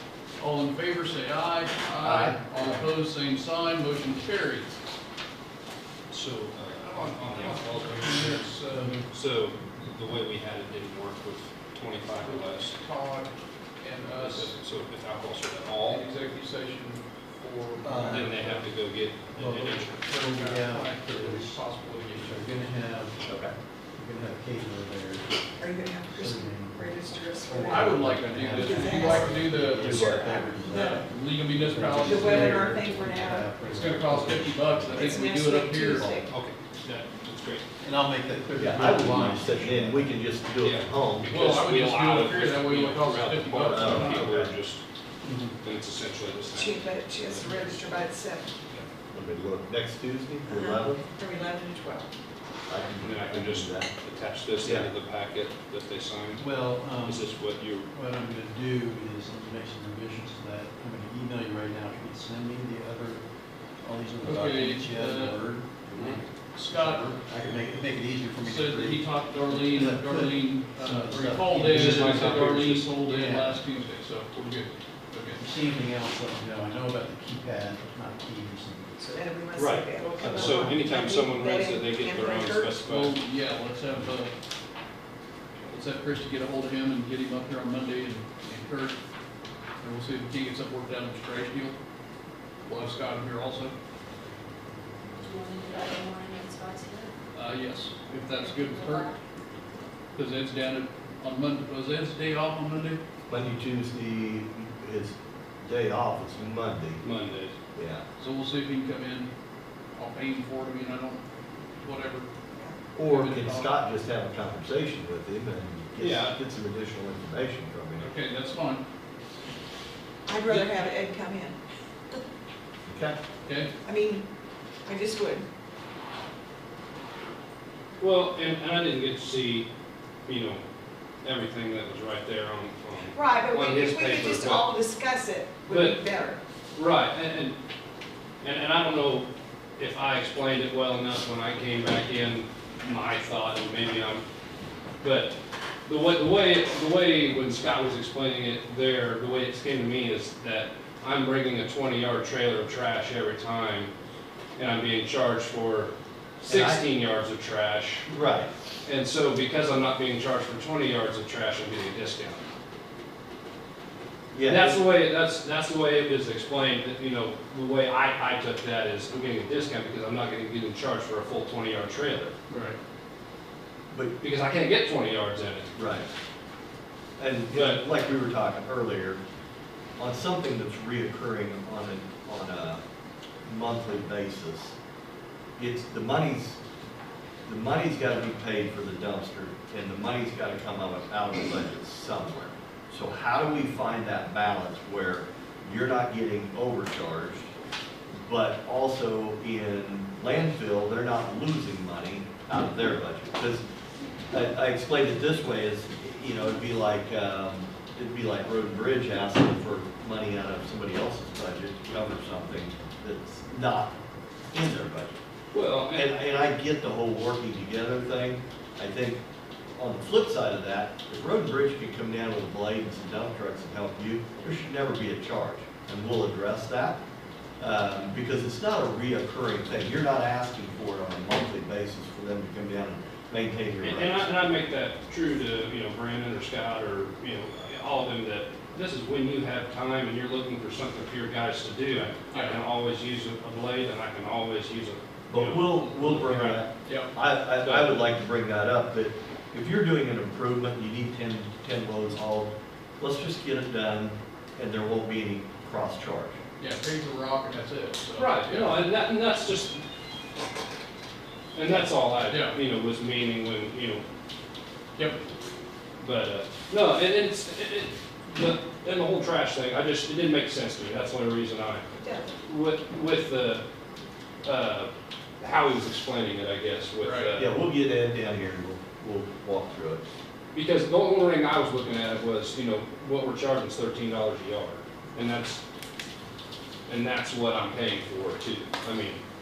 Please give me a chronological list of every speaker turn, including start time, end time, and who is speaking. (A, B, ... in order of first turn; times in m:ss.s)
0:00.4-0:04.8 A
0:02.0-0:02.7 B
0:06.1-0:08.5 C
0:07.3-0:09.0 A
0:09.1-0:12.8 C
0:12.2-0:14.6 A
0:14.2-0:16.0 C
0:15.8-0:18.7 A
0:17.8-0:18.3 D
0:18.1-0:20.0 C
0:19.4-0:23.2 D
0:19.4-0:22.5 A
0:23.2-0:23.5 B
0:23.9-0:25.5 D
0:25.6-0:28.0 E
0:26.1-0:35.2 D
0:27.7-0:29.9 A
0:28.6-0:31.0 E
0:29.7-0:30.3 B
0:30.7-0:32.6 A
0:32.0-0:33.5 E
0:33.7-0:36.1 A
0:34.9-0:36.3 E
0:35.8-0:36.2 D
0:36.3-0:37.6 C
0:37.8-0:40.1 D
0:38.6-0:41.3 B
0:40.6-0:44.8 C
0:41.3-0:44.3 A
0:43.7-0:44.5 B
0:45.2-0:45.5 D
0:45.6-0:47.9 C
0:46.5-0:48.5 E
0:49.1-0:51.1 B
0:50.4-0:52.1 E
0:52.7-0:53.9 B
0:53.0-0:57.9 C
0:54.6-0:54.9 B
0:56.4-0:57.3 D
0:57.9-1:03.2 D
1:03.8-1:13.6 D
1:04.2-1:05.4 A
1:05.9-1:06.2 C
1:06.5-1:07.2 A
1:08.4-1:15.4 A
1:11.6-1:12.9 C
1:15.4-1:19.0 D
1:19.0-1:22.8 E
1:19.5-1:23.1 C
1:22.8-1:24.3 A
1:25.6-1:29.0 A
1:29.8-1:31.8 A
1:32.6-1:33.7 A
1:35.1-1:37.2 F
1:37.3-1:39.1 A
1:38.1-1:39.2 F
1:40.1-1:43.0 A
1:43.3-1:47.0 B
1:47.0-1:47.5 C
1:47.7-1:48.0 B
1:48.2-1:49.3 A
1:49.9-1:51.2 A
1:51.8-1:52.3 A
1:52.9-1:58.1 B
1:53.0-1:53.8 A
1:56.0-1:56.4 C
1:58.0-1:58.8 A
2:00.3-2:01.6 E
2:00.5-2:00.8 A
2:02.8-2:03.2 B
2:03.4-2:03.7 A
2:03.8-2:04.2 E
2:04.8-2:05.5 E
2:08.0-2:09.7 C
2:10.2-2:10.6 C
2:11.2-2:14.7 C
2:13.1-2:16.4 E
2:15.7-2:16.0 C
2:16.7-2:17.6 C
2:18.4-2:19.3 C
2:19.8-2:24.2 C
2:25.0-2:25.3 C
2:25.8-2:33.9 C
2:34.6-2:38.1 C
2:36.5-2:36.8 B
2:38.1-2:38.5 B
2:38.8-2:42.4 C
2:44.3-2:44.8 B
2:44.4-2:52.3 C
2:52.5-2:52.8 A
2:53.9-2:54.2 B
2:54.2-2:55.7 C
2:55.8-2:56.1 B
2:57.2-2:59.2 B
2:57.5-2:57.8 C
3:00.0-3:02.8 B
3:03.4-3:04.7 B
3:05.6-3:06.6 B
3:07.4-3:17.5 B
3:18.1-3:23.6 B
3:24.3-3:34.0 B
3:34.5-3:35.2 B
3:35.5-3:36.1 C
3:35.9-3:39.2 B
3:39.8-3:47.0 B
3:47.6-3:54.3 B
3:53.8-4:06.7 C
4:02.3-4:02.6 A
4:05.3-4:16.4 B
4:06.8-4:07.1 A
4:07.6-4:08.0 C
4:16.6-4:18.8 A
4:18.2-4:19.8 C
4:21.5-4:24.0 C
4:22.3-4:22.6 A
4:26.0-4:31.8 C
4:32.0-4:32.3 E
4:32.4-4:33.6 C
4:34.4-4:37.5 C
4:37.0-4:37.4 A
4:37.4-4:40.0 B
4:40.5-4:45.6 C
4:46.9-4:49.2 C